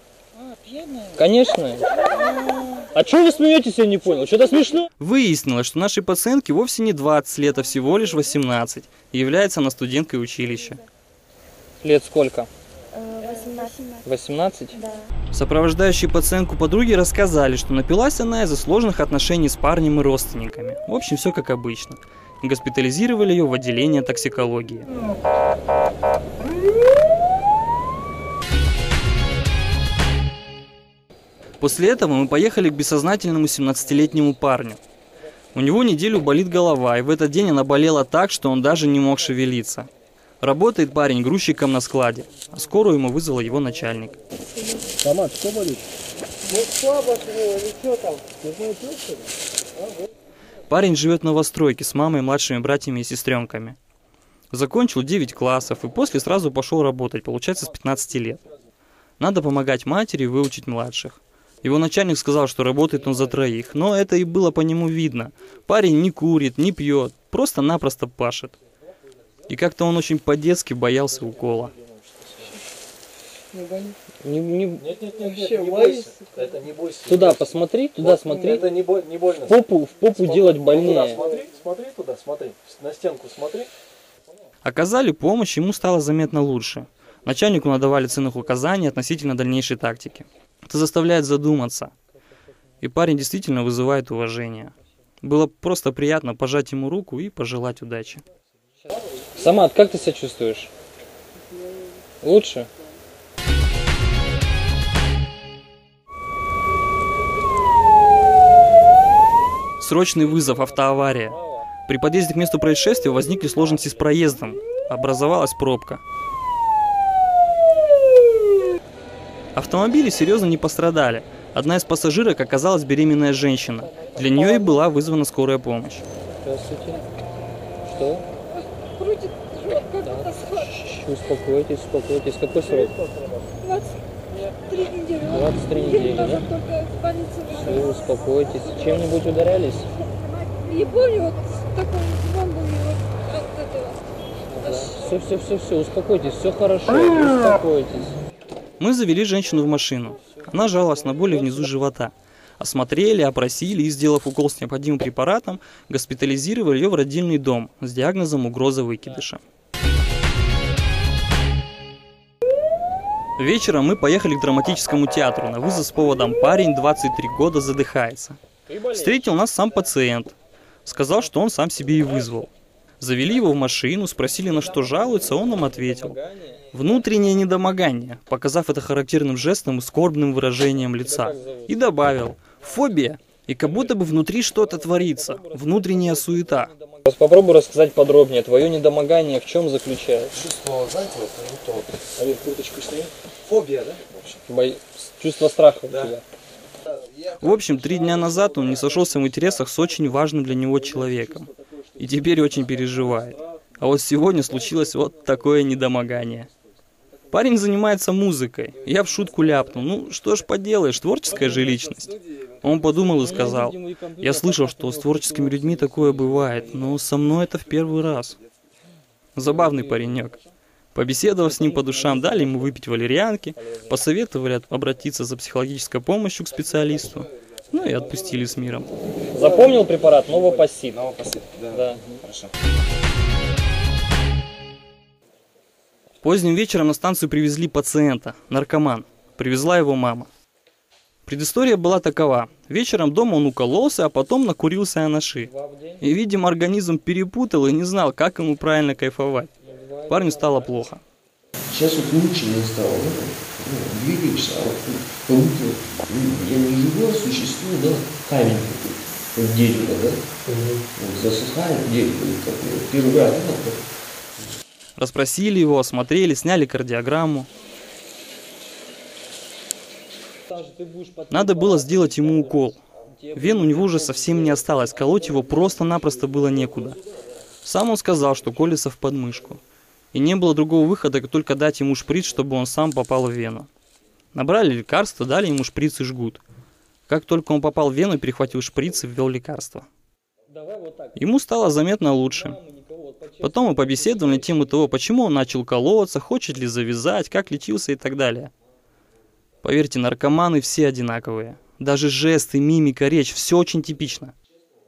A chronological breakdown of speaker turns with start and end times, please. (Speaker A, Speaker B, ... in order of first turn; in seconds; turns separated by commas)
Speaker A: 1.0-1.9, Speaker A: 2.8-4.9, Speaker B: 5.0-10.8, Speaker A: 11.8-12.5, Speaker C: 12.9-14.0, Speaker A: 14.0-14.8, Speaker B: 15.3-24.9, Speaker B: 31.6-34.8, Speaker B: 35.5-39.9, Speaker B: 40.4-44.2, Speaker D: 45.0-45.8, Speaker D: 46.5-49.0, Speaker B: 50.7-53.8, Speaker B: 54.5-58.4, Speaker B: 59.2-68.6, Speaker B: 69.5-71.7, Speaker D: 71.8-72.5, Speaker A: 73.5-76.1, Speaker D: 74.8-77.4, Speaker A: 77.0-78.8, Speaker D: 78.0-79.5, Speaker A: 79.4-81.2, Speaker D: 80.2-83.7, Speaker B: 84.6-91.9, Speaker B: 92.8-98.2, Speaker A: 99.3-100.7, Speaker A: 102.2-102.7, Speaker B: 109.8-116.0, Speaker A: 110.7-111.6, Speaker B: 119.5-126.0, Speaker A: 126.4-127.0, Speaker A: 127.8-128.2, Speaker C: 128.9-130.0, Speaker A: 129.9-133.0, Speaker C: 133.6-135.3, Speaker A: 135.2-136.5, Speaker C: 136.4-137.7, Speaker A: 137.4-139.9, Speaker C: 140.5-143.9, Speaker A: 144.5-148.2, Speaker B: 148.8-159.4, Speaker B: 163.4-168.4, Speaker A: 168.7-169.3, Speaker B: 168.9-176.2, Speaker A: 174.5-176.7, Speaker B: 176.7-186.7, Speaker A: 181.0-181.8, Speaker A: 184.6-190.4, Speaker E: 190.3-192.1, Speaker D: 192.1-194.3, Speaker A: 194.5-196.2, Speaker B: 197.3-206.5, Speaker B: 207.3-218.4, Speaker A: 213.2-216.8, Speaker B: 219.3-220.4, Speaker A: 219.6-220.3, Speaker B: 220.9-228.9, Speaker A: 221.4-222.7, Speaker A: 223.6-224.0, Speaker A: 229.3-231.1, Speaker E: 231.0-232.5, Speaker A: 231.7-232.2, Speaker B: 236.2-240.3, Speaker B: 241.2-245.5, Speaker A: 245.4-246.0, Speaker B: 246.0-249.5, Speaker A: 249.6-250.9, Speaker B: 250.1-251.0, Speaker E: 251.6-260.3, Speaker E: 260.8-263.8, Speaker B: 265.0-267.5, Speaker A: 270.5-273.9, Speaker B: 271.3-272.8, Speaker B: 273.3-277.0, Speaker B: 277.6-279.6, Speaker B: 280.1-283.7, Speaker B: 284.3-286.4, Speaker B: 287.1-289.9, Speaker A: 290.5-291.2, Speaker B: 291.2-292.6, Speaker A: 292.0-294.9, Speaker B: 293.4-298.5, Speaker B: 299.6-304.3